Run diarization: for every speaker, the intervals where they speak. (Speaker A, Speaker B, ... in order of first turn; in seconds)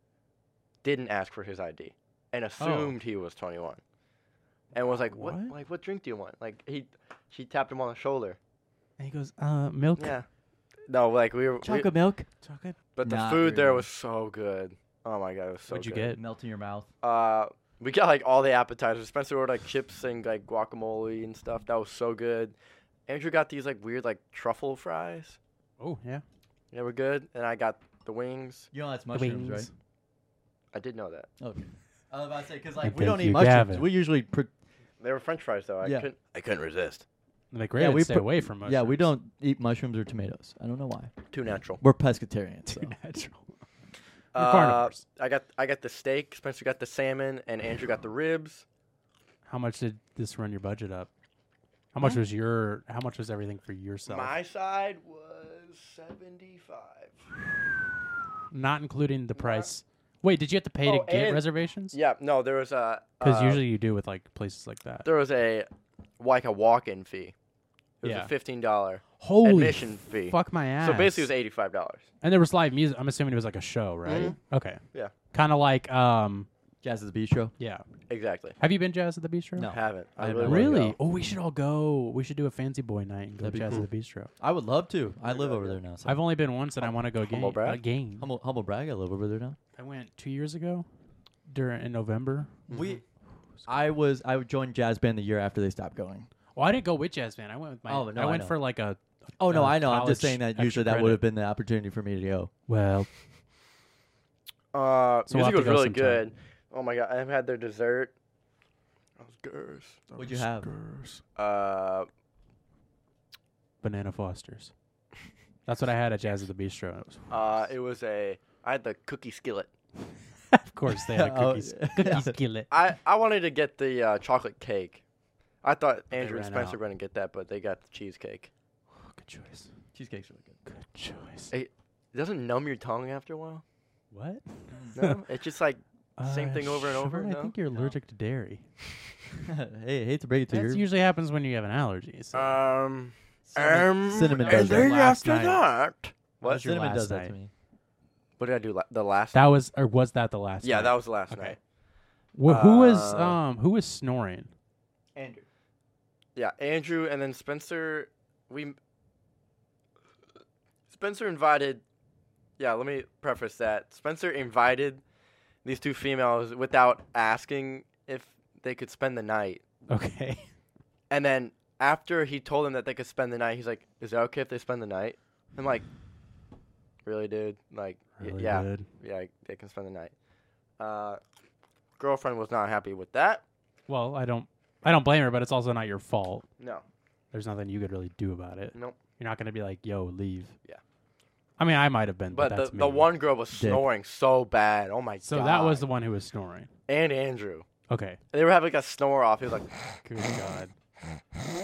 Speaker A: 0.8-3.8, 4.7-8.4, 10.0-10.2, 10.9-11.9, 12.9-16.1, 17.0-22.6, 23.1-25.4, 26.7-28.7, 30.7-31.3, 35.0-37.0, 41.3-41.8, 44.3-48.6, 54.1-57.2, 59.4-59.7, 60.8-63.6, 65.0-65.7, 66.2-67.3, 68.0-72.1, 74.0-74.3, 78.1-78.6, 79.7-81.0, 85.2-85.8, 86.8-87.8, 92.7-93.0, 104.7-108.1, 109.2-110.0, 111.3-112.1, 117.3-119.7, 122.7-125.0, 125.6-128.5, 131.5-133.6, 134.9-137.5, 142.3-146.7, 148.4-149.5, 150.6-151.6, 152.4-153.4, 156.3-158.8, 160.9-161.8, 162.6-165.0, 165.6-169.6, 171.1-175.8, 177.0-180.1, 180.8-181.2, 182.0-183.4, 192.3-195.8, 196.9-197.7, 198.3-199.7
Speaker B: 2.6-3.0, 4.9-5.5, 9.0-10.1, 12.4-12.8, 15.7-16.2, 25.8-26.2, 29.1-29.7, 32.8-33.9, 37.5-39.1, 42.7-43.5, 44.3-45.0, 49.4-51.1, 51.9-54.3, 58.5-62.0, 63.2-65.1, 68.0-68.3, 69.2-71.3, 72.2-74.8, 75.3-76.5, 77.6-77.8, 78.6-79.7, 80.4-84.3, 86.0-88.3, 89.8-90.9, 91.5-92.6, 96.5-101.2, 102.7-103.1, 105.3-106.2, 110.1-111.2, 113.8-114.7, 115.7-117.4, 120.5-122.7, 126.1-126.8, 129.0-129.7, 130.7-131.5, 134.1-135.1, 136.2-138.6, 140.5-142.6, 144.3-145.6, 146.4-147.3, 149.3-151.6, 152.3-154.5, 169.9-170.5, 178.2-178.9, 183.9-186.4, 187.3-190.5, 191.6-193.1, 195.2-196.7, 197.9-198.2, 200.0-200.7
Speaker C: 11.6-12.3, 13.0-13.9, 16.1-16.9, 28.7-29.7, 31.4-34.5, 35.8-36.1, 37.8-41.1, 41.8-42.9, 76.8-77.5, 79.5-80.9, 83.4-83.8, 84.4-86.2, 88.2-89.6, 92.7-93.0, 93.7-96.3, 97.9-98.6, 99.4-102.5, 110.2-110.7, 121.1-122.3, 129.9-130.6, 134.7-135.0, 139.4-140.8, 143.5-145.2, 146.4-147.5, 155.1-155.4, 193.5-193.8